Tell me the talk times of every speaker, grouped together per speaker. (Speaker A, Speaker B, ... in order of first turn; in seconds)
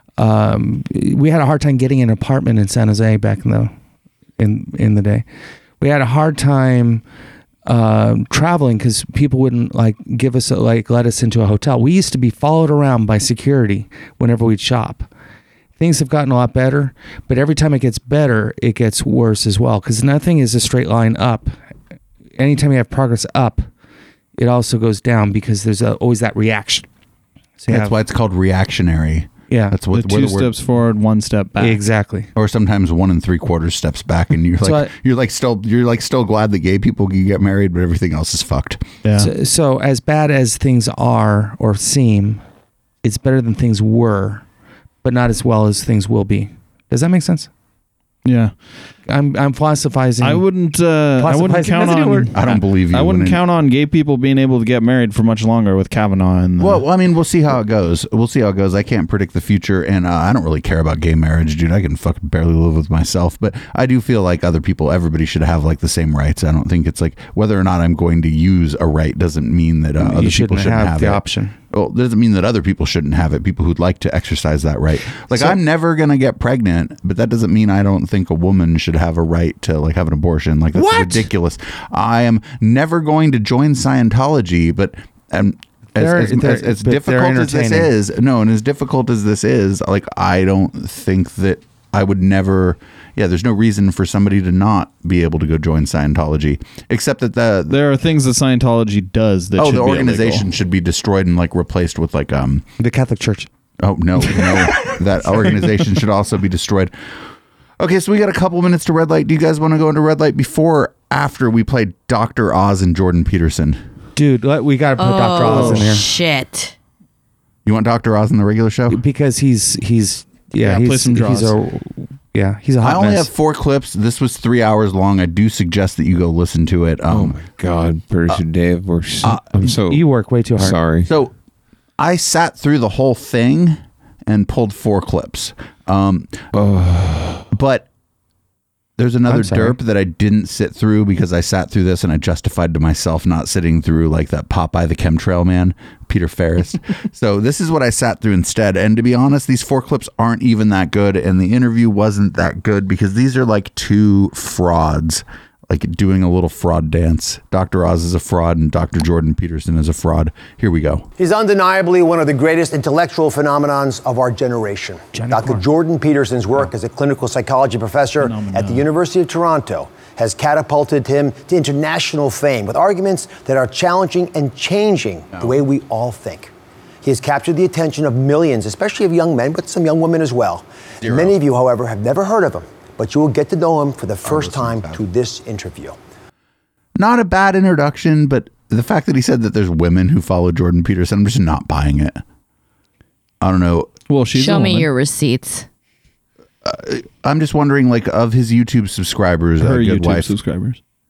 Speaker A: 0.2-3.7, 4.4-5.2, 5.8-7.0, 7.7-15.1, 15.8-21.5, 22.4-23.7, 24.4-26.9, 27.6-27.9, 29.5-29.8, 31.6-32.3, 34.6-34.9, 39.1-42.4, 43.0-44.4, 45.0-47.5, 49.1-50.5, 51.2-52.3, 70.0-71.5, 75.3-75.6, 80.7-81.3, 86.0-87.9, 102.8-103.5, 114.2-116.0, 118.9-123.3, 129.6-130.8, 139.3-139.8, 165.1-165.6
Speaker B: 27.7-30.5, 32.3-38.8, 52.3-53.4, 56.6-97.8, 99.6-102.6, 103.8-106.9, 107.8-113.8, 117.7-119.0, 122.8-127.4, 129.2-129.6, 131.1-131.3, 132.0-136.5, 137.5-137.9, 139.0-161.1, 181.0-181.3, 184.2-185.0, 186.9-192.2, 193.4-193.9, 196.6-200.3
Speaker C: 29.9-31.8, 39.0-39.3, 48.2-48.5, 50.2-56.8, 97.7-100.5, 115.5-115.8, 120.6-121.5, 168.2-168.9, 194.1-194.9, 199.6-200.8
Speaker D: 115.0-116.7, 194.3-195.7
Speaker E: 127.1-130.1, 130.6-131.1, 136.5-137.5
Speaker F: 161.2-176.5, 177.0-186.0